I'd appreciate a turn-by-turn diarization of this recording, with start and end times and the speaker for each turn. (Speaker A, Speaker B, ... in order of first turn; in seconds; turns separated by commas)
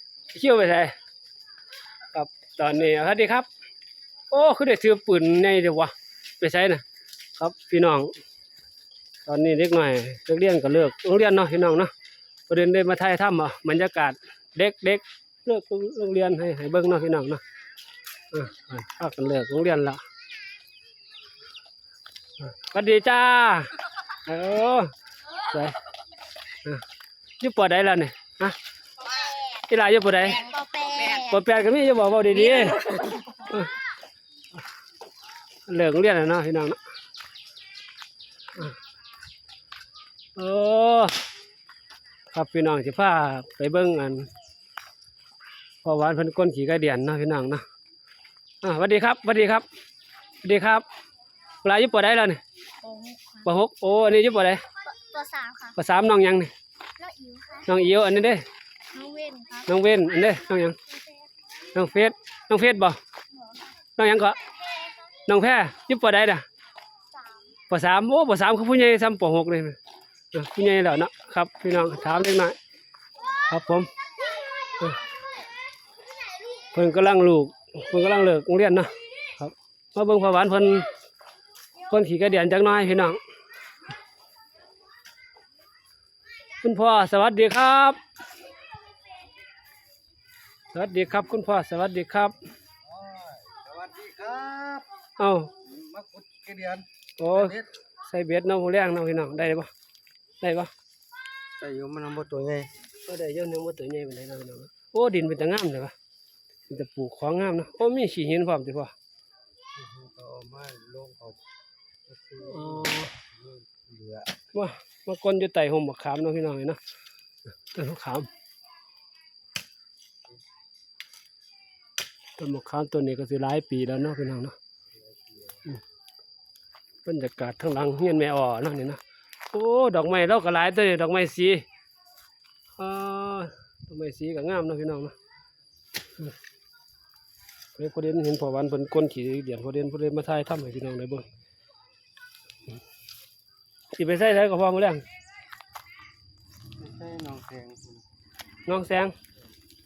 Speaker A: 0.3-0.9, Speaker A: 2.1-3.5, Speaker A: 4.3-6.8, Speaker A: 7.4-8.1, Speaker A: 9.2-11.9, Speaker A: 12.5-17.4, Speaker A: 18.3-20.0, Speaker A: 22.4-25.8, Speaker A: 27.4-28.6, Speaker A: 29.5-30.5, Speaker B: 30.4-31.4, Speaker A: 31.1-33.7, Speaker A: 35.7-36.8, Speaker A: 40.4-41.2, Speaker A: 42.3-44.3, Speaker A: 45.8-47.6, Speaker A: 48.6-49.6, Speaker A: 50.4-50.8, Speaker A: 51.6-52.4, Speaker B: 52.8-53.4, Speaker A: 53.4-54.6, Speaker B: 54.9-55.7, Speaker A: 55.7-56.5, Speaker B: 57.0-57.6, Speaker A: 57.6-58.4, Speaker B: 58.9-59.6, Speaker A: 59.6-60.8, Speaker B: 60.9-61.2, Speaker A: 61.7-63.0, Speaker A: 64.0-64.4, Speaker B: 64.7-65.0, Speaker A: 65.2-66.4, Speaker B: 67.1-67.4, Speaker A: 67.7-69.8, Speaker A: 70.3-72.6, Speaker A: 73.4-73.9, Speaker A: 76.7-80.9, Speaker A: 81.9-83.2, Speaker A: 86.6-88.0, Speaker A: 90.7-92.3, Speaker C: 92.8-94.9, Speaker A: 95.2-95.5, Speaker C: 95.6-97.7, Speaker A: 97.2-99.7, Speaker A: 100.4-100.7, Speaker C: 101.6-102.7, Speaker A: 103.0-105.9, Speaker A: 106.7-108.9, Speaker C: 109.8-111.4, Speaker C: 112.0-114.3, Speaker A: 112.5-113.1, Speaker A: 114.5-116.8, Speaker A: 117.7-118.3, Speaker A: 122.4-124.5, Speaker C: 124.9-125.7, Speaker A: 127.0-129.0, Speaker A: 129.5-131.6, Speaker A: 132.8-135.1, Speaker A: 137.7-141.2, Speaker A: 143.9-145.0, Speaker C: 146.8-148.1, Speaker A: 148.7-149.1